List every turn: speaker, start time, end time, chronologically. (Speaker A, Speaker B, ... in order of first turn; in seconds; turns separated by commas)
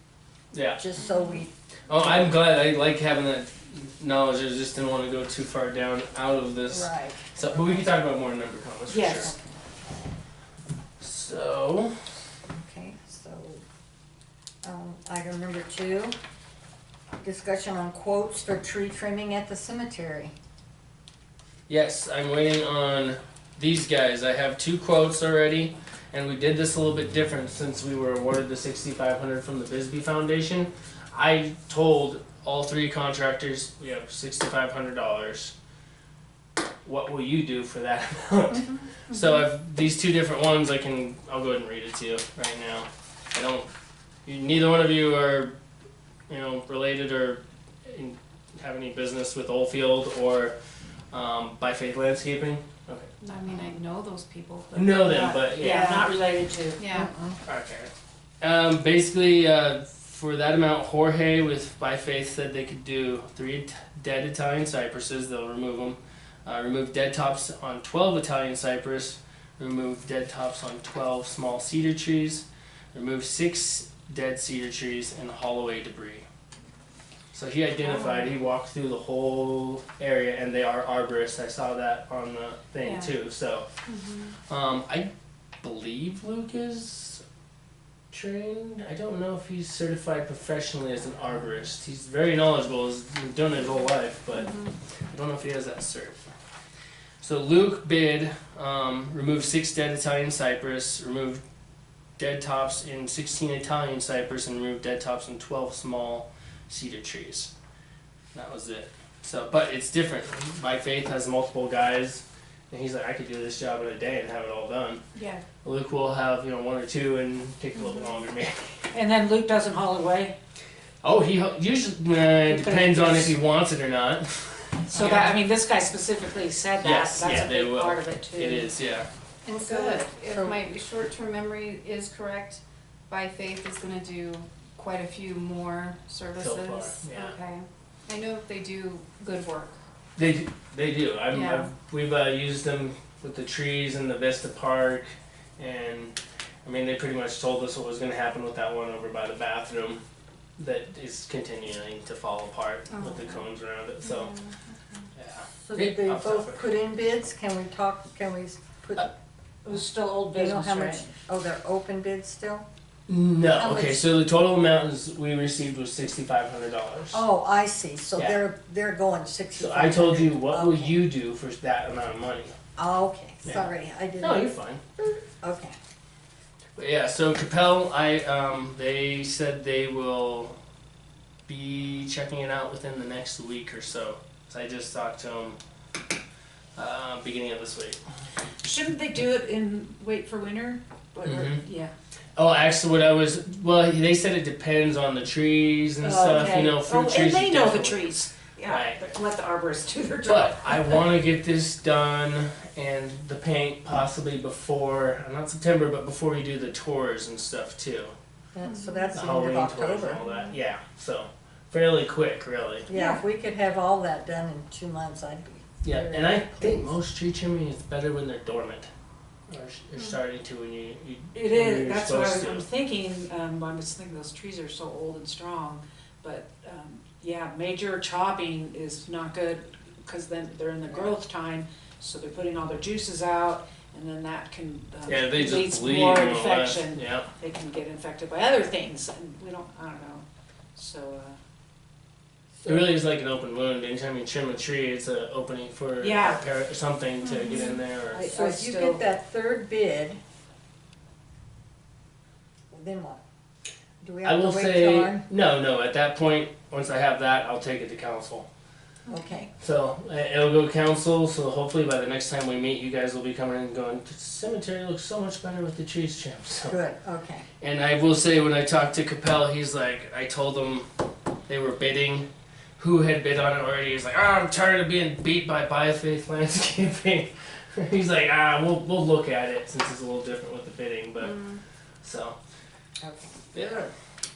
Speaker A: 0.5-0.8, Speaker B: 0.8-1.5, Speaker C: 1.0-1.4, Speaker A: 1.9-9.3, Speaker B: 6.7-7.9, Speaker D: 8.9-9.3, Speaker A: 11.0-11.9, Speaker B: 12.5-13.6, Speaker B: 14.6-16.1, Speaker B: 17.2-20.3, Speaker A: 21.7-35.5, Speaker A: 36.8-43.7, Speaker C: 38.9-39.4, Speaker A: 44.3-45.6, Speaker A: 46.3-50.6, Speaker A: 51.1-53.1, Speaker C: 53.2-56.1, Speaker A: 54.7-56.1, Speaker D: 55.1-56.8, Speaker C: 56.8-57.1, Speaker B: 56.9-57.4, Speaker A: 57.5-76.3, Speaker A: 77.3-83.7, Speaker C: 77.8-78.3, Speaker C: 82.8-83.1, Speaker C: 83.9-84.4, Speaker A: 84.5-85.1, Speaker A: 85.6-87.2, Speaker A: 88.1-96.3, Speaker C: 94.3-94.7, Speaker A: 97.2-101.4, Speaker A: 102.2-107.5, Speaker A: 108.3-115.0, Speaker C: 115.2-115.5, Speaker A: 115.6-118.7, Speaker C: 117.8-118.1, Speaker D: 118.9-120.4, Speaker A: 121.0-125.4, Speaker D: 122.5-123.4, Speaker D: 124.9-128.7, Speaker A: 126.8-129.1, Speaker C: 129.4-139.8, Speaker B: 129.7-130.6, Speaker A: 136.4-137.4, Speaker A: 140.2-150.0, Speaker C: 141.3-141.7, Speaker A: 150.6-154.3, Speaker C: 152.9-153.5, Speaker C: 154.0-155.1, Speaker A: 155.2-156.7, Speaker B: 155.6-159.1, Speaker D: 159.7-161.1, Speaker B: 160.3-162.7, Speaker A: 163.1-167.2, Speaker B: 163.6-164.1, Speaker B: 167.1-171.0, Speaker A: 169.6-172.6, Speaker B: 172.8-175.8, Speaker A: 174.2-174.8, Speaker A: 176.8-180.6, Speaker A: 181.5-185.6, Speaker A: 186.8-188.0, Speaker D: 188.6-191.9, Speaker A: 191.2-191.6, Speaker A: 192.4-198.2, Speaker D: 196.0-201.1, Speaker A: 198.7-199.0, Speaker A: 200.2-208.2, Speaker B: 208.5-210.2, Speaker C: 208.7-209.2, Speaker A: 209.1-212.9, Speaker C: 210.3-210.5, Speaker B: 212.9-216.9, Speaker D: 212.9-213.2, Speaker A: 215.8-218.9, Speaker A: 219.5-222.7, Speaker D: 221.3-241.4, Speaker A: 235.1-237.3, Speaker A: 242.6-248.2, Speaker D: 246.0-246.4, Speaker C: 247.2-247.8, Speaker D: 248.1-249.0, Speaker B: 248.2-250.2, Speaker B: 252.7-253.2, Speaker B: 254.0-255.3, Speaker A: 254.2-258.5, Speaker C: 259.1-259.5, Speaker B: 259.1-259.5, Speaker A: 259.6-266.8, Speaker B: 266.7-267.5, Speaker A: 267.6-270.9, Speaker A: 271.5-272.3, Speaker A: 272.8-281.4, Speaker C: 281.2-281.6, Speaker A: 282.0-282.4, Speaker B: 283.0-283.5, Speaker A: 283.5-283.9